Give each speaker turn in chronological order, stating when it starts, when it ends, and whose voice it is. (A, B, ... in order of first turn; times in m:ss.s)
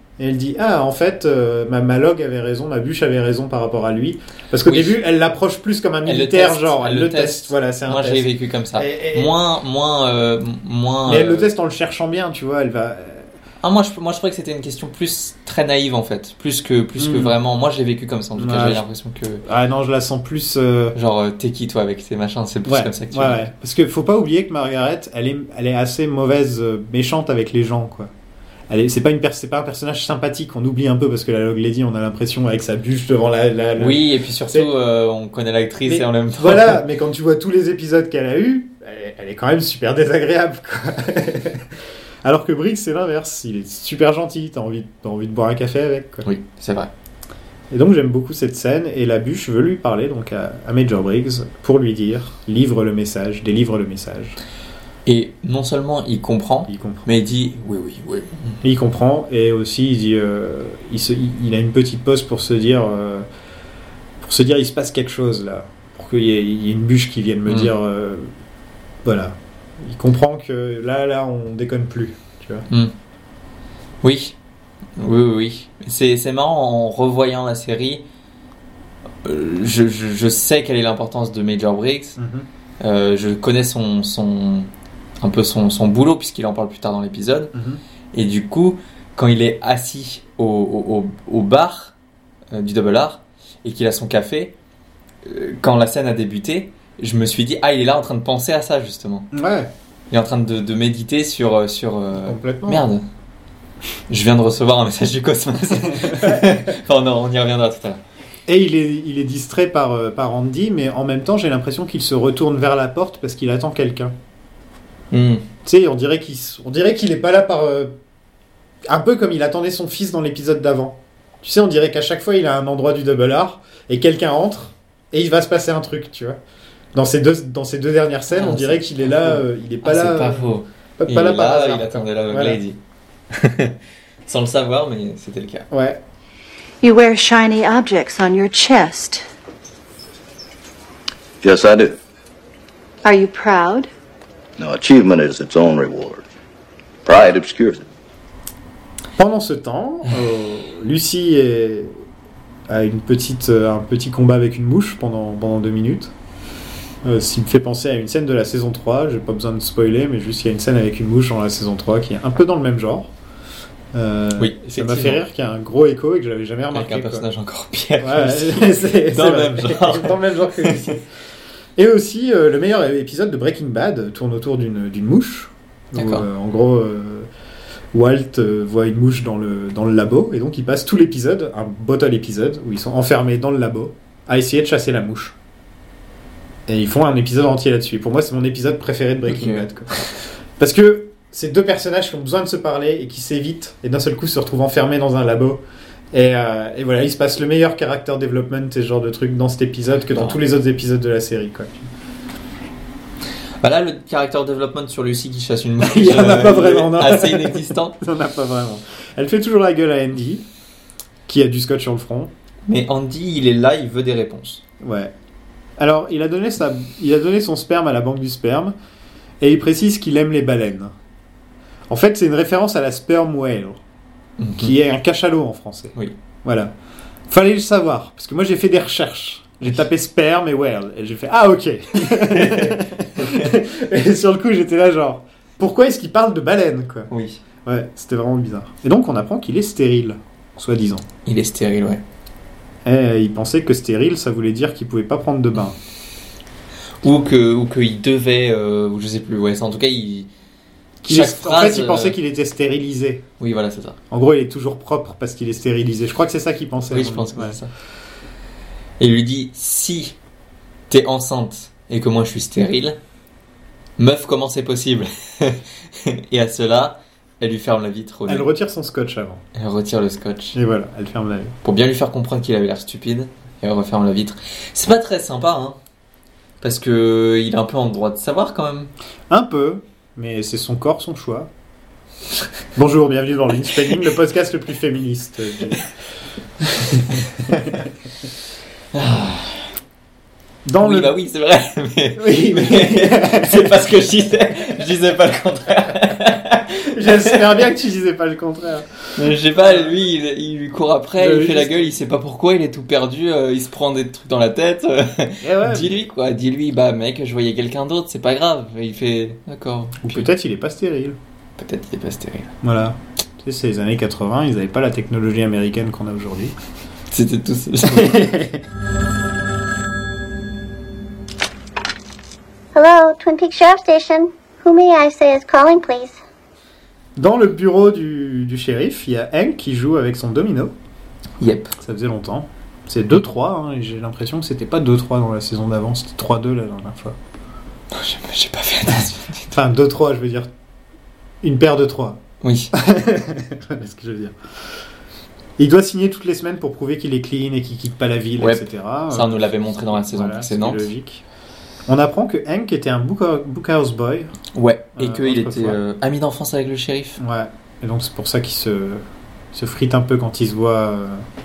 0:00.2-0:09.3 A
0:04.6-0:05.0 B
0:06.0-0:11.5 B
0:11.0-0:13.3 A
0:13.6-0:19.4 B
0:17.0-0:17.3 A
0:18.4-0:18.8 A
0:19.4-0:21.0 A
0:20.9-0:23.5 B
0:22.6-0:28.1 A
0:28.7-0:34.7 A
0:33.8-0:36.8 B
0:35.8-0:41.7 A
0:42.2-0:46.3 A
0:46.2-0:46.9 B
0:47.7-0:54.4 A
0:55.0-0:58.6 B
0:56.7-0:57.1 A
0:58.6-1:03.3 A
1:04.2-1:08.3 A
1:07.5-1:07.7 B
1:09.0-1:12.7 A
1:14.0-1:14.4 B
1:15.0-1:18.0 B
1:19.2-1:22.2 B
1:22.2-1:22.5 A
1:22.8-1:24.7 B
1:25.2-1:27.5 B
1:27.5-1:27.8 A
1:28.1-1:31.9 B
1:32.5-1:34.5 B
1:35.2-1:39.3 B
1:39.3-1:39.7 A
1:40.1-1:43.0 B
1:42.2-1:42.9 A
1:44.1-1:48.0 B
1:45.9-1:46.6 A
1:48.5-1:54.2 A
1:55.1-1:55.4 B
1:55.6-1:57.9 A
1:58.8-2:06.4 A
2:06.9-2:12.6 A
2:08.3-2:12.8 B
2:13.3-2:15.7 B
2:15.7-2:16.0 A
2:16.8-2:19.2 C
2:21.4-2:22.0 D
2:23.0-2:23.9 C
2:24.6-2:26.2 D
2:27.0-2:27.8 D
2:29.2-2:32.0 A
2:32.7-2:36.1 A
2:37.0-2:43.1 A
2:43.9-2:47.2 A
2:44.4-2:45.2 B
2:46.7-2:50.9 B
2:48.0-2:51.0 A
2:51.8-2:57.3 A
2:56.0-2:56.3 B
2:57.9-3:05.4 A
3:06.7-3:21.9 A
3:09.3-3:10.1 B
3:23.6-3:28.0 B
3:25.8-3:30.4 A
3:31.3-3:32.3 A
3:32.7-3:34.6 B
3:34.8-3:35.1 A
3:35.8-3:38.7 A
3:39.4-3:40.9 A
3:41.9-3:43.8 A
3:44.4-3:44.7 B
3:44.6-3:46.7 A
3:47.3-3:57.1 A
3:52.0-3:53.5 B
3:57.1-3:57.4 B
3:57.6-4:01.0 A
4:01.2-4:02.0 B
4:02.8-4:05.8 A
4:07.0-4:10.3 B
4:11.0-4:13.2 A
4:11.1-4:12.2 B
4:13.4-4:14.0 B
4:14.1-4:17.6 A
4:16.9-4:17.7 B
4:19.0-4:20.1 B
4:20.9-4:23.0 B
4:24.0-4:28.4 B
4:28.3-4:29.4 A
4:29.6-4:30.6 B
4:30.5-4:31.5 A
4:31.6-4:35.8 B
4:36.6-4:38.9 B
4:39.3-4:41.5 A
4:42.7-4:45.9 A
4:46.6-4:47.9 A
4:48.9-4:49.7 B
4:50.6-4:51.2 A
4:50.8-4:57.4 B
4:52.2-4:53.9 A
4:56.9-4:59.9 A
4:59.2-5:10.3 B
5:01.2-5:01.9 A
5:05.4-5:06.0 A
5:10.0-5:11.2 A
5:11.6-5:12.5 B
5:12.6-5:16.5 A
5:17.1-5:18.3 B
5:17.8-5:18.6 A
5:22.7-5:26.2 E
5:27.2-5:30.7 A
5:31.4-5:31.7 B
5:31.8-5:37.2 A
5:37.9-5:39.5 B
5:39.5-5:40.5 A
5:41.4-5:42.2 A
5:42.4-5:42.7 B
5:42.7-5:44.4 A
5:45.6-5:51.2 A
5:48.4-5:50.9 B
5:51.9-5:54.3 A
5:54.5-5:57.2 B
5:55.0-5:55.8 A
5:57.2-6:01.2 A